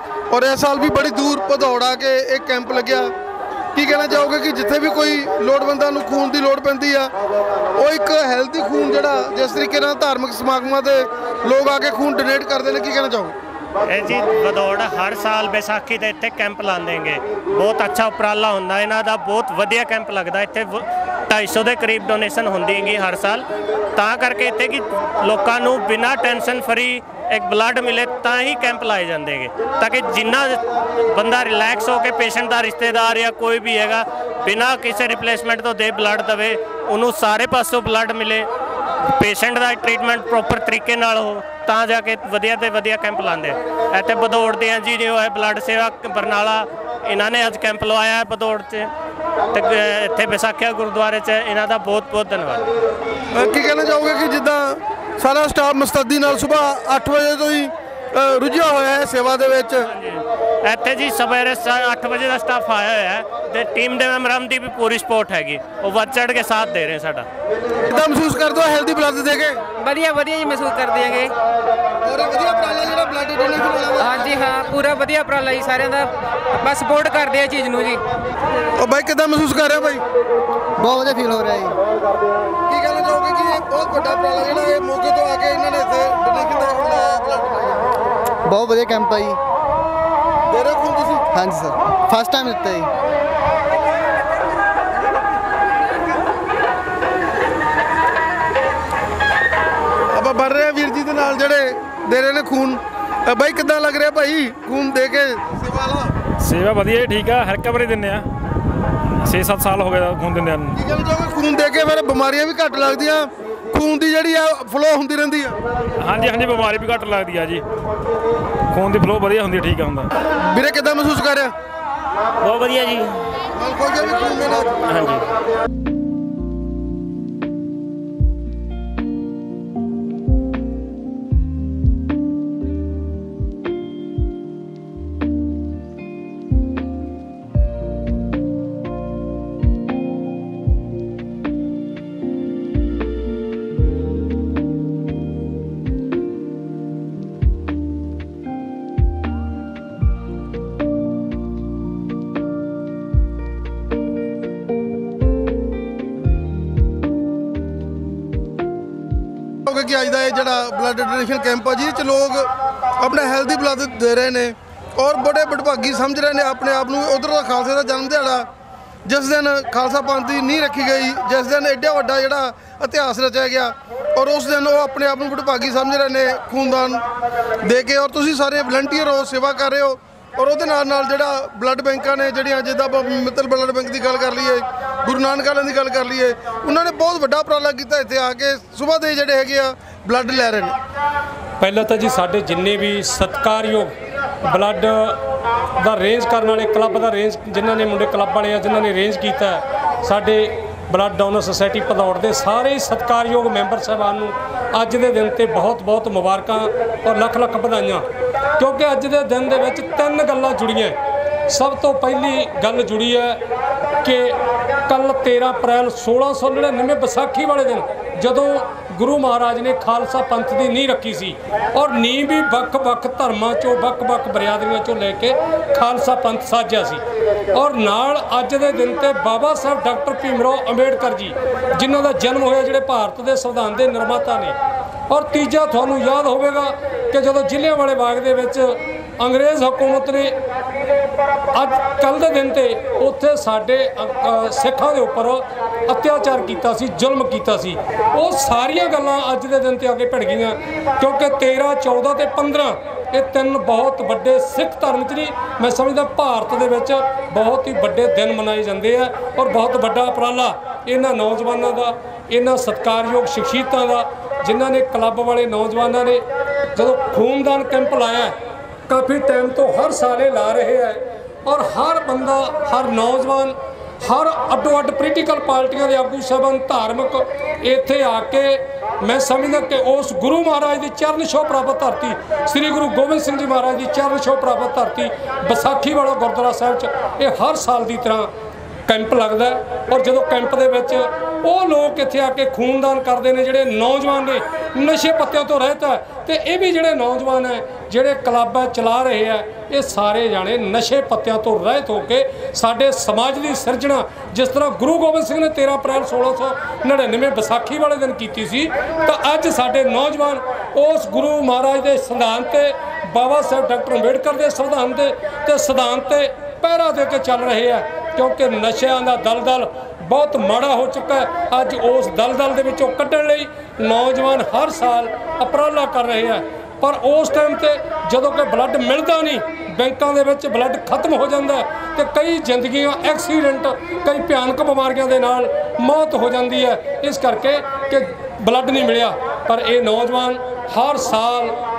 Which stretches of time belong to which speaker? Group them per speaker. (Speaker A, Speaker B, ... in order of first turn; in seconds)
Speaker A: 0.3-3.1, 3.8-7.1, 7.8-13.3, 53.3-59.9, 67.9-69.6, 72.0-74.2, 78.8-80.0, 82.7-87.8, 90.5-91.3, 100.1-106.1, 110.8-115.6, 120.5-121.5, 123.5-124.8, 159.7-162.5, 163.0-168.5, 169.1-177.0, 177.6-190.8
Speaker B: 13.9-38.5, 39.1-48.9, 49.5-52.7, 59.9-67.3, 122.5-123.0
Speaker C: 69.8-71.3, 74.0-78.0
Speaker D: 80.8-81.8, 88.5-89.4, 91.3-92.9
Speaker E: 106.4-108.3, 109.2-110.8, 116.0-117.7, 118.7-120.1
Speaker F: 191.6-193.9, 194.4-195.2, 195.8-208.1, 208.6-211.0, 211.5-213.4, 214.0-234.6, 235.1-240.3, 241.5-266.2, 266.8-268.4, 268.9-288.3, 288.9-341.6